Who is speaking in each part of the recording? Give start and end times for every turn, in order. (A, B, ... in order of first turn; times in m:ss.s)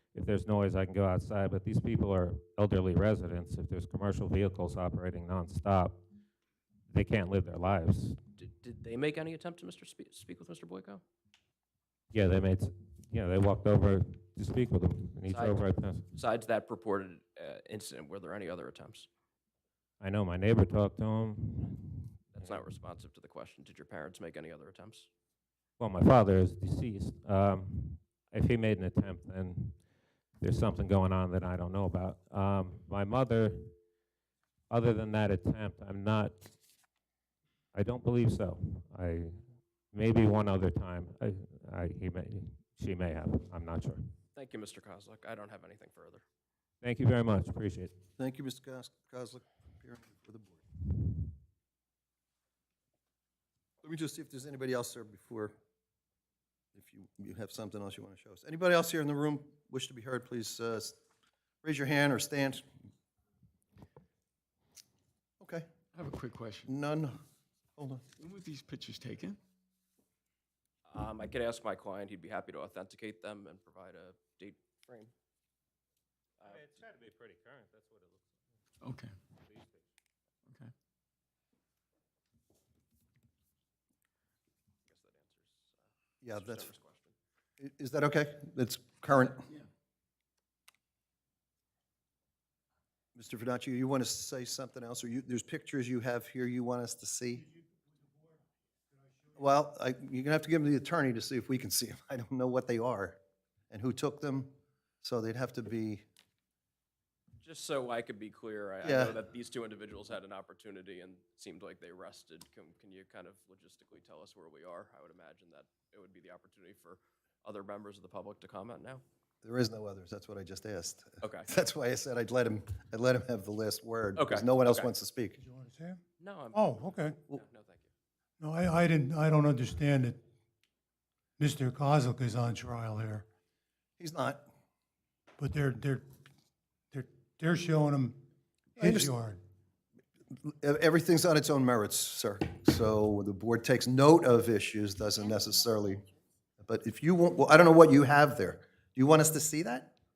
0:00.1-0:06.0 A
0:06.9-0:08.2 A
0:08.4-0:11.0 B
0:12.1-0:16.0 A
0:15.3-0:19.1 B
0:20.0-0:22.6 A
0:22.3-0:25.1 B
0:25.8-0:29.8 A
0:30.4-0:33.7 A
0:34.7-0:36.5 A
0:37.7-0:39.4 A
0:39.9-0:44.0 A
0:44.4-0:46.2 B
0:46.8-0:48.0 A
0:48.2-0:50.6 C
0:53.8-0:55.6 C
0:56.8-1:01.0 C
1:01.6-1:02.6 C
1:05.4-1:05.7 C
1:05.9-1:06.7 D
1:06.7-1:07.2 C
1:07.8-1:08.0 C
1:08.2-1:09.4 D
1:10.9-1:15.1 B
1:16.4-1:16.7 B
1:16.4-1:18.4 A
1:18.8-1:19.2 D
1:19.4-1:19.9 A
1:20.5-1:20.7 D
1:24.9-1:25.8 B
1:26.2-1:26.7 C
1:26.3-1:27.2 B
1:27.6-1:29.4 C
1:33.2-1:37.5 C
1:37.4-1:38.4 E
1:39.1-1:39.4 E
1:39.4-1:46.0 C
1:47.4-1:59.0 B
1:48.8-1:49.2 C
1:59.4-2:05.4 C
2:01.2-2:01.5 B
2:04.2-2:04.9 B
2:05.4-2:06.0 E
2:06.2-2:07.9 B
2:06.5-2:07.2 E
2:08.4-2:10.2 E
2:11.4-2:13.2 E
2:14.0-2:14.4 C
2:15.4-2:16.0 E
2:16.9-2:18.2 E
2:18.8-2:19.1 C
2:18.8-2:19.4 E
2:20.3-2:26.0 C
2:26.6-2:29.9 C